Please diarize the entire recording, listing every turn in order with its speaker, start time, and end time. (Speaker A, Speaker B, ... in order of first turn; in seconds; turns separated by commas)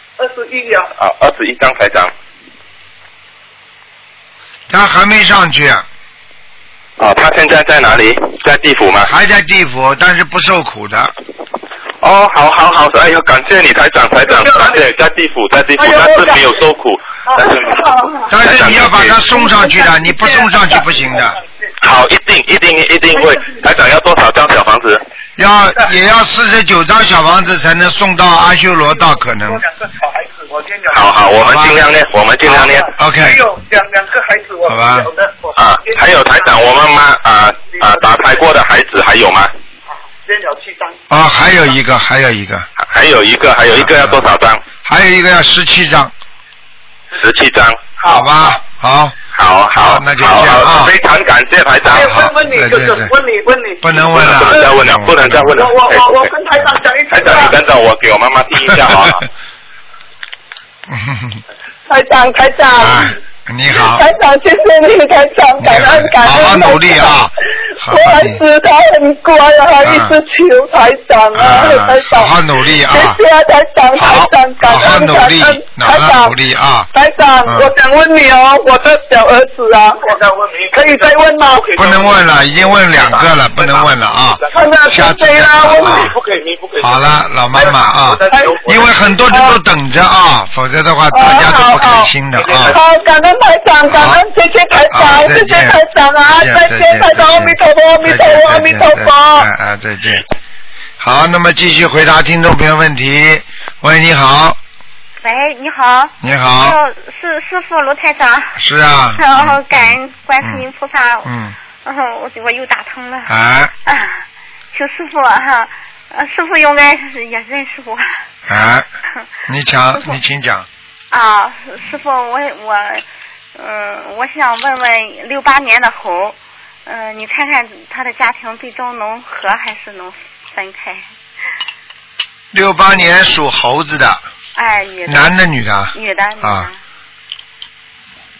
Speaker A: 0.2-0.9, Speaker B: 1.0-2.1, Speaker C: 4.7-5.8, Speaker B: 7.0-9.1, Speaker C: 9.1-11.1, Speaker B: 12.0-17.8, Speaker A: 14.4-14.8, Speaker D: 15.8-16.3, Speaker C: 18.3-21.4, Speaker B: 18.4-19.2, Speaker B: 21.8-25.0, Speaker C: 25.4-29.6, Speaker A: 29.5-31.2, Speaker B: 30.9-32.9, Speaker C: 31.4-31.8, Speaker A: 32.4-36.5, Speaker C: 33.0-33.5, Speaker C: 34.6-35.1, Speaker B: 35.5-39.5, Speaker A: 37.8-38.0, Speaker A: 40.3-41.0, Speaker C: 41.1-42.7, Speaker B: 42.8-44.6, Speaker C: 43.7-44.2, Speaker C: 44.8-46.1, Speaker B: 47.1-47.9, Speaker A: 48.0-48.3, Speaker C: 48.1-49.1, Speaker B: 49.3-52.2, Speaker C: 49.7-50.9, Speaker A: 51.9-54.7, Speaker C: 51.9-53.1, Speaker C: 53.8-55.5, Speaker B: 54.1-56.3, Speaker A: 55.5-57.6, Speaker B: 57.1-59.2, Speaker C: 60.9-61.4, Speaker D: 61.9-63.1, Speaker C: 62.8-64.1, Speaker D: 63.8-67.2, Speaker C: 65.6-68.4, Speaker D: 67.8-76.3, Speaker C: 69.8-70.2, Speaker C: 71.3-73.2, Speaker C: 74.0-76.9, Speaker D: 76.9-80.0, Speaker C: 77.4-77.7, Speaker A: 80.0-83.9, Speaker D: 80.7-81.7, Speaker C: 81.8-86.1, Speaker D: 84.5-86.1, Speaker A: 85.6-89.1, Speaker C: 86.8-92.8, Speaker D: 88.3-88.6, Speaker D: 89.3-89.5, Speaker D: 91.1-99.5, Speaker A: 92.4-92.8, Speaker C: 93.8-94.2, Speaker C: 94.9-100.2, Speaker C: 101.0-104.6, Speaker E: 105.2-108.6, Speaker C: 106.2-106.8, Speaker C: 108.5-110.6, Speaker E: 109.1-111.3, Speaker C: 111.2-111.5, Speaker E: 111.8-113.3, Speaker C: 113.2-113.7, Speaker E: 113.8-118.2, Speaker C: 118.5-118.9, Speaker C: 119.5-120.7, Speaker E: 121.1-123.0, Speaker E: 123.5-131.1, Speaker C: 132.5-134.2, Speaker E: 134.5-135.4, Speaker C: 135.1-136.7, Speaker E: 135.9-136.8